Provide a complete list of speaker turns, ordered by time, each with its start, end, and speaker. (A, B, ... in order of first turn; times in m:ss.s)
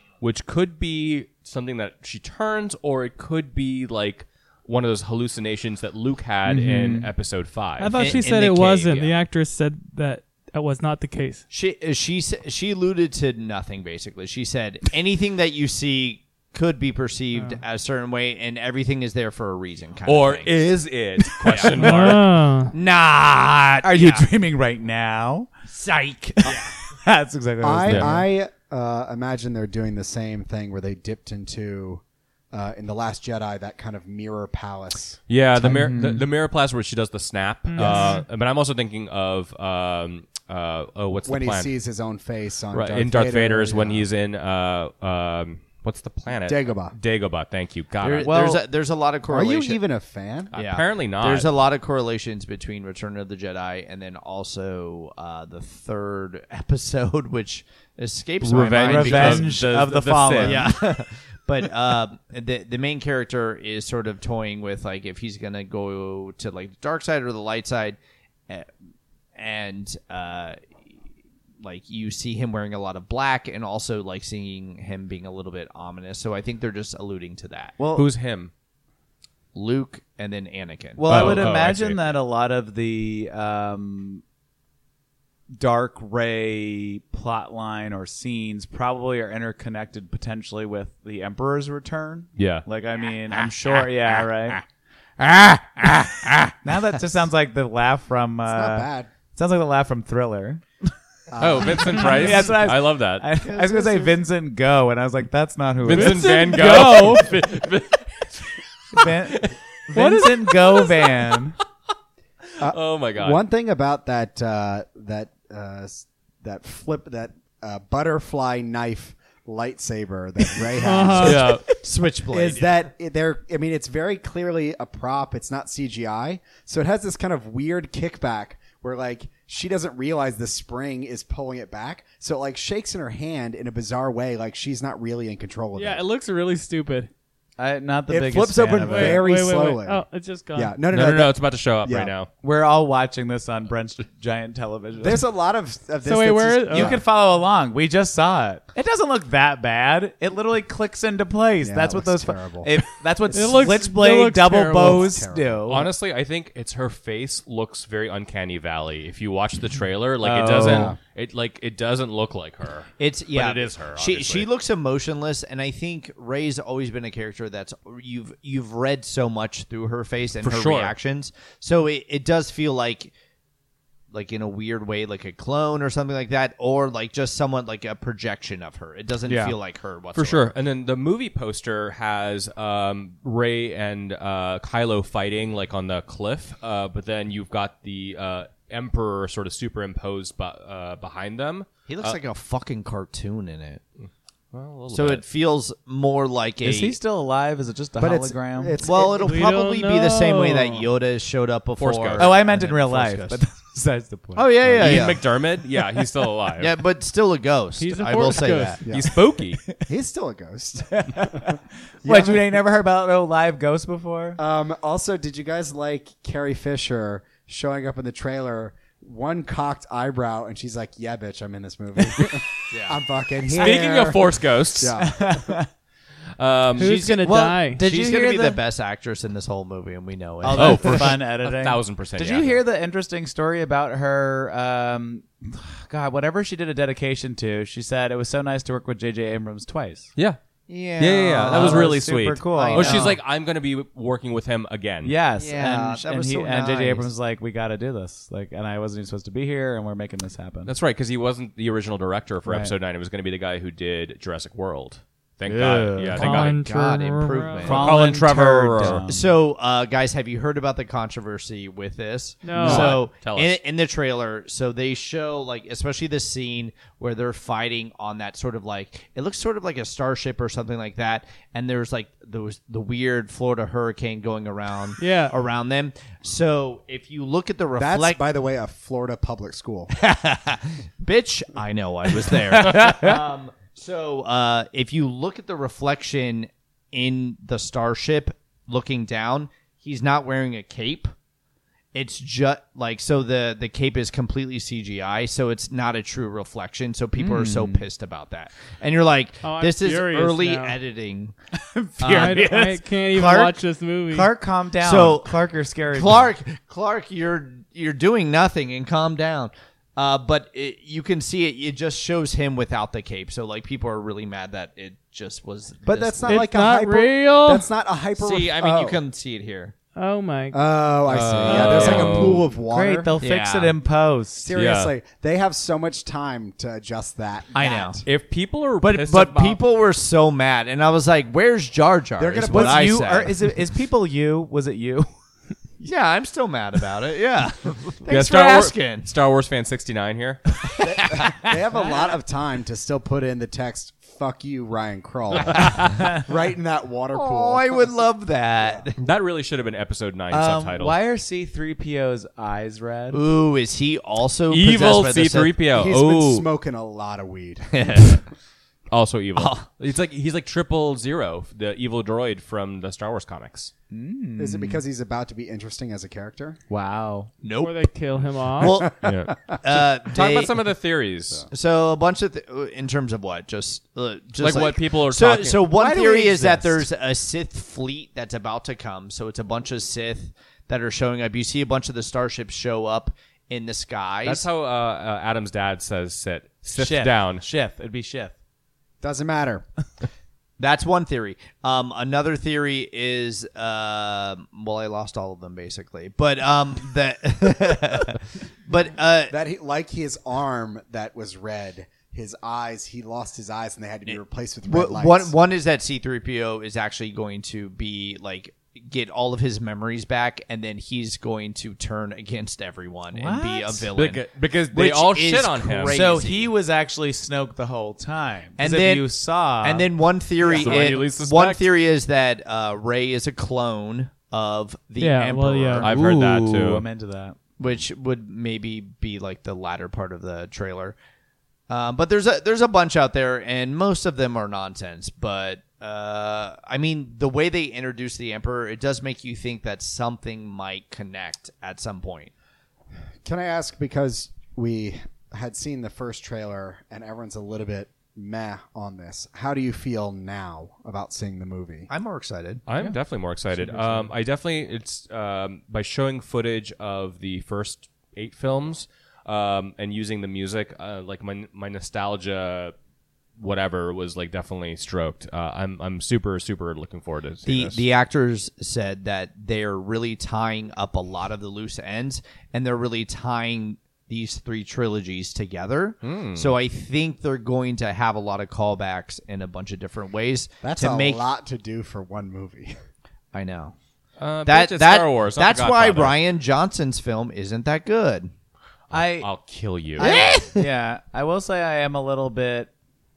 0:00.2-0:08.2 A
0:06.4-0:07.1 B
0:07.8-0:11.4 C
0:07.9-0:09.2 D
0:11.5-0:20.5 D
0:20.1-0:22.2 A
0:21.4-0:22.1 D
0:21.8-0:22.7 C
0:22.7-0:24.3 D
0:23.8-0:25.5 B
0:25.7-0:26.7 D
0:26.4-0:28.2 B
0:27.6-0:35.2 E
0:27.8-0:28.1 A
0:35.3-0:41.7 A
0:35.6-0:36.3 B
0:37.7-0:38.2 C
0:37.8-0:38.2 E
0:41.3-0:44.1 E
0:42.7-0:48.4 A
0:46.4-0:47.0 E
0:48.0-0:49.8 D
0:48.2-0:48.6 B
0:49.3-0:50.5 E
0:50.5-0:51.5 A
0:50.5-0:59.6 D
0:58.4-1:00.7 A
0:58.8-1:00.7 B
1:00.4-1:08.0 D
1:09.4-1:10.6 D
1:11.6-1:18.0 D
1:17.9-1:18.5 A
1:19.5-1:21.5 D
1:21.0-1:24.2 B
1:21.1-1:22.1 A
1:25.6-1:34.6 B
1:32.4-1:32.6 A
1:35.2-1:36.6 D
1:36.6-1:40.6 B
1:38.5-1:39.1 E
1:41.3-1:42.3 E
1:41.4-1:43.3 A
1:42.0-1:47.1 B
1:43.4-1:44.2 D
1:45.9-1:47.4 C
1:45.9-1:51.0 A
1:48.9-1:51.6 B
1:52.6-1:53.4 A
1:52.6-2:01.6 E
2:00.8-2:01.4 C
2:01.1-2:02.7 D
2:01.2-2:01.6 A
2:01.2-2:01.6 B
2:02.3-2:16.0 E
2:15.8-2:17.1 C
2:17.6-2:19.3 B
2:18.1-2:22.1 E
2:18.8-2:20.8 C
2:20.9-2:22.3 A
2:22.4-2:25.2 B
2:25.0-2:27.0 E
2:26.0-2:27.0 C
2:26.7-2:35.9 B
2:31.6-2:32.7 E
2:33.3-2:35.2 C
2:34.8-2:35.6 E
2:35.7-2:44.5 A
2:40.2-2:41.0 B
2:40.6-2:41.0 E
2:43.0-2:53.1 D
2:50.4-2:50.9 A
2:54.1-3:00.5 D
2:59.3-2:59.5 B
3:00.2-3:12.2 A
3:11.9-3:13.8 D
3:14.5-3:15.2 A
3:14.9-3:17.0 D
3:16.6-3:18.8 B
3:18.0-3:19.4 E
3:18.8-3:23.4 D
3:19.2-3:20.9 C
3:21.8-3:22.3 A
3:22.2-3:25.2 B
3:24.4-3:25.2 D
3:24.8-3:26.8 A
3:25.7-3:26.0 B
3:26.6-3:28.8 D
3:27.8-3:28.8 C
3:28.8-3:29.2 E
3:28.9-3:29.6 A
3:29.5-3:29.8 B
3:29.9-3:32.5 E
3:30.9-3:34.4 B
3:34.4-3:45.6 E
3:42.7-3:43.0 D
3:43.5-3:45.0 A
3:45.0-3:45.7 B
3:46.4-3:47.0 A
3:46.8-3:51.1 D
3:46.8-3:47.8 C
3:47.8-3:48.6 B
3:50.4-4:00.1 B
3:50.5-3:52.6 A
4:00.7-4:02.0 D
4:01.0-4:05.2 A
4:01.5-4:03.2 B
4:02.5-4:03.2 D
4:05.0-4:10.7 B
4:05.4-4:07.1 D
4:10.6-4:16.6 A
4:12.5-4:12.7 B
4:15.4-4:16.5 B
4:16.2-4:17.8 C
4:16.2-4:17.9 D
4:17.6-4:19.4 B
4:17.6-4:19.1 A
4:18.8-4:38.2 D
4:22.4-4:23.0 C
4:22.6-4:23.6 A
4:22.6-4:22.9 B
4:35.0-4:35.4 C
4:37.8-4:39.9 E
4:39.9-4:51.1 D
4:42.5-4:43.2 B
4:51.9-5:01.4 D
4:57.2-4:57.9 B
4:59.4-5:00.8 C
5:01.5-5:03.5 B
5:02.0-5:02.5 D
5:02.2-5:04.3 C
5:03.2-5:03.5 D
5:04.1-5:06.3 B
5:04.8-5:05.3 D
5:05.9-5:16.4 D
5:15.9-5:19.0 E
5:16.3-5:17.7 C
5:18.2-5:19.8 D
5:20.0-5:20.6 C
5:20.5-5:23.1 E
5:21.1-5:22.4 A
5:21.5-5:24.5 B
5:23.2-5:23.8 D
5:24.4-5:28.0 E
5:24.6-5:24.9 A
5:27.5-5:28.0 D
5:28.0-5:29.6 A
5:28.8-5:33.3 D
5:32.2-5:33.0 E
5:32.5-5:35.1 B
5:35.8-5:39.1 D
5:38.1-5:40.6 A
5:40.8-5:47.9 E
5:41.0-5:41.2 D
5:45.4-5:45.9 D
5:47.2-5:49.0 D
5:49.0-5:51.0 A
5:50.3-5:53.2 B
5:53.1-5:55.5 D
5:54.5-5:56.5 A
5:55.7-5:58.0 E
5:57.7-5:58.2 D
5:58.9-6:03.7 A
5:59.4-5:59.6 D
6:03.9-6:04.8 B
6:04.4-6:06.6 E
6:06.7-6:07.3 B
6:07.4-6:07.9 D
6:07.6-6:08.8 C
6:08.6-6:09.0 D
6:08.6-6:09.6 E
6:09.0-6:11.5 A
6:09.6-6:10.6 D
6:11.5-6:24.4 D
6:14.4-6:15.7 A
6:15.7-6:16.9 E
6:24.2-6:27.4 A
6:26.8-6:28.4 B
6:29.0-6:29.6 E
6:30.6-6:39.4 D
6:39.3-6:45.3 E
6:44.1-6:56.5 D
6:53.1-6:53.9 B
6:54.0-6:56.0 A
6:55.9-6:59.9 B
6:58.6-6:59.1 D
6:59.6-7:05.9 D
7:00.4-7:01.0 B
7:00.4-7:01.6 A
7:05.0-7:05.9 C
7:05.8-7:06.8 A
7:05.8-7:07.4 B
7:07.6-7:11.0 D
7:11.7-7:22.3 D
7:23.2-7:31.9 E
7:31.9-7:32.6 D
7:32.7-7:42.7 A
7:32.7-7:33.0 B
7:33.5-7:34.1 B
7:43.4-7:47.8 A
7:47.5-8:01.2 D
7:56.0-7:56.5 A
8:00.6-8:02.8 E
8:03.3-8:03.8 D
8:04.2-8:06.2 A
8:04.5-8:08.3 D
8:08.9-8:10.1 A
8:08.9-8:09.3 B
8:10.0-8:10.6 D
8:10.0-8:12.7 B